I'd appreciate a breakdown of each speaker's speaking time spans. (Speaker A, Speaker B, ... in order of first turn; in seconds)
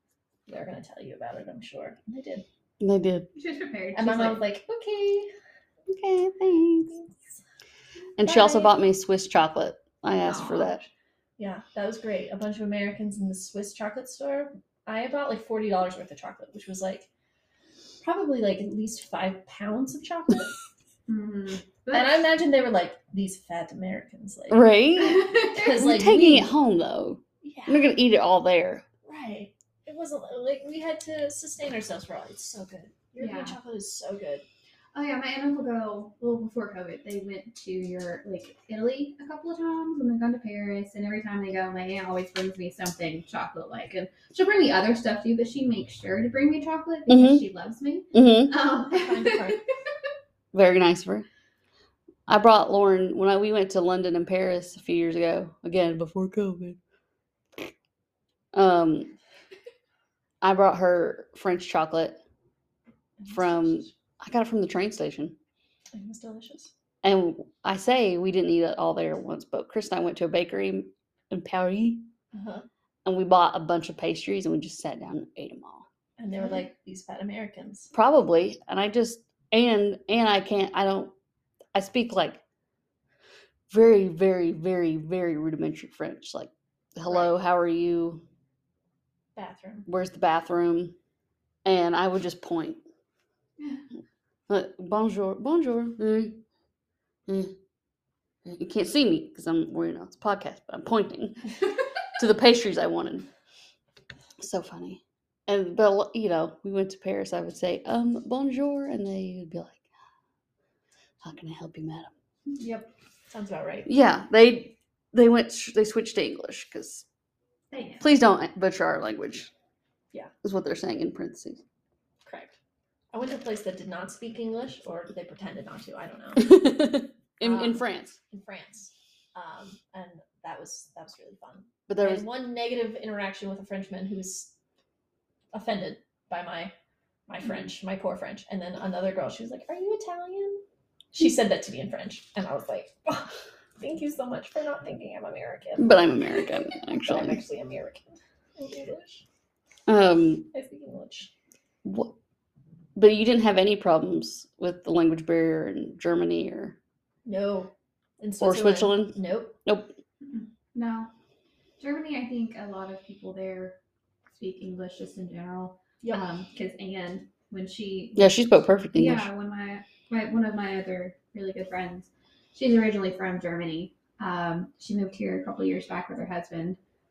Speaker A: 0.5-2.5, 4.0-5.3, 6.9-7.4, 11.4-17.1, 18.0-20.6, 21.9-24.7, 25.4-26.5, 27.4-27.9, 29.1-34.4, 48.9-49.6, 63.2-63.9, 65.9-66.7, 72.3-72.7, 76.2-77.9, 87.1-87.3, 89.4-89.9, 112.6-113.9, 122.2-122.5, 123.1-126.6, 127.4-134.5, 135.5-136.7, 137.3-140.6, 141.1-146.0, 147.0-149.2, 150.5-151.3, 157.3-159.6
Speaker B: 2.8-3.3, 5.9-7.0, 8.2-10.8, 24.5-28.8, 47.1-47.4, 48.1-48.5, 50.5-51.3, 52.3-56.8, 58.5-59.1, 60.4-62.2, 63.3-65.4, 67.0-72.1, 73.0-75.9, 77.9-81.1, 81.7-82.4, 83.7-88.2, 89.9-91.0, 91.7-92.8, 94.5-96.4, 97.3-97.5, 98.4-101.6, 102.2-103.3, 104.4-109.8, 111.2-112.1, 113.9-117.0, 118.0-119.5, 120.4-121.6, 126.4-128.2, 131.9-132.3, 145.8-147.4, 149.9-150.5, 151.8-152.1, 153.0-156.8, 158.4-159.9, 168.2-169.3
Speaker C: 3.4-4.5, 8.2-8.8, 10.2-10.8, 21.1-22.3, 25.0-25.8, 33.2-33.6, 34.9-49.6, 117.7-118.2, 160.2-161.1, 161.8-163.8, 164.3-176.8